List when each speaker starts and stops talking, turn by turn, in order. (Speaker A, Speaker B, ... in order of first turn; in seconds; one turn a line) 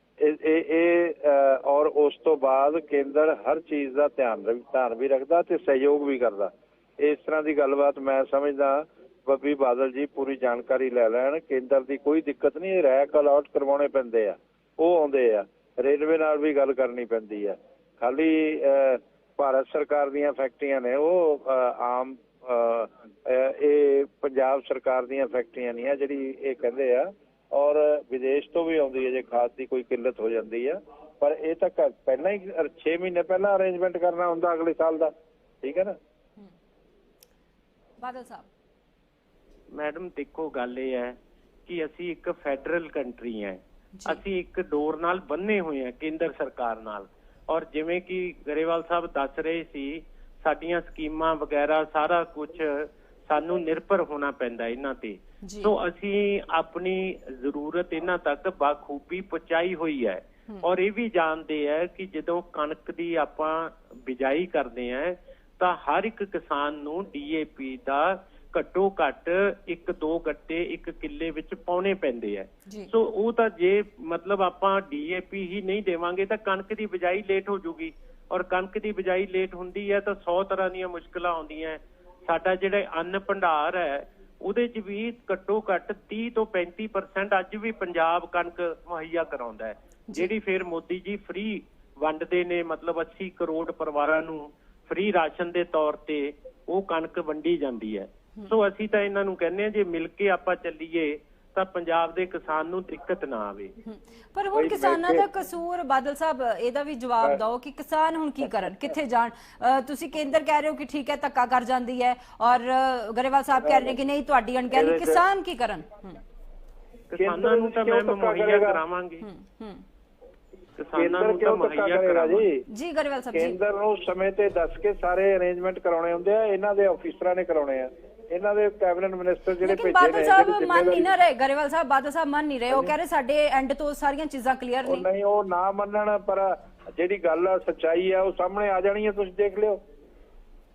Speaker A: 0.2-36.0
Speaker B: 38.0-38.5
Speaker C: 39.7-41.2
Speaker C: 41.7-103.7
Speaker B: 44.0-44.2
Speaker B: 55.4-55.7
Speaker B: 103.8-116.2
Speaker A: 104.5-105.3
Speaker A: 113.7-114.0
Speaker A: 114.7-115.2
Speaker C: 117.1-119.2
Speaker A: 117.2-118.8
Speaker B: 119.2-119.8
Speaker C: 120.8-122.5
Speaker A: 121.0-122.7
Speaker B: 122.7-123.6
Speaker A: 123.3-131.1
Speaker B: 129.6-135.1
Speaker A: 134.8-139.8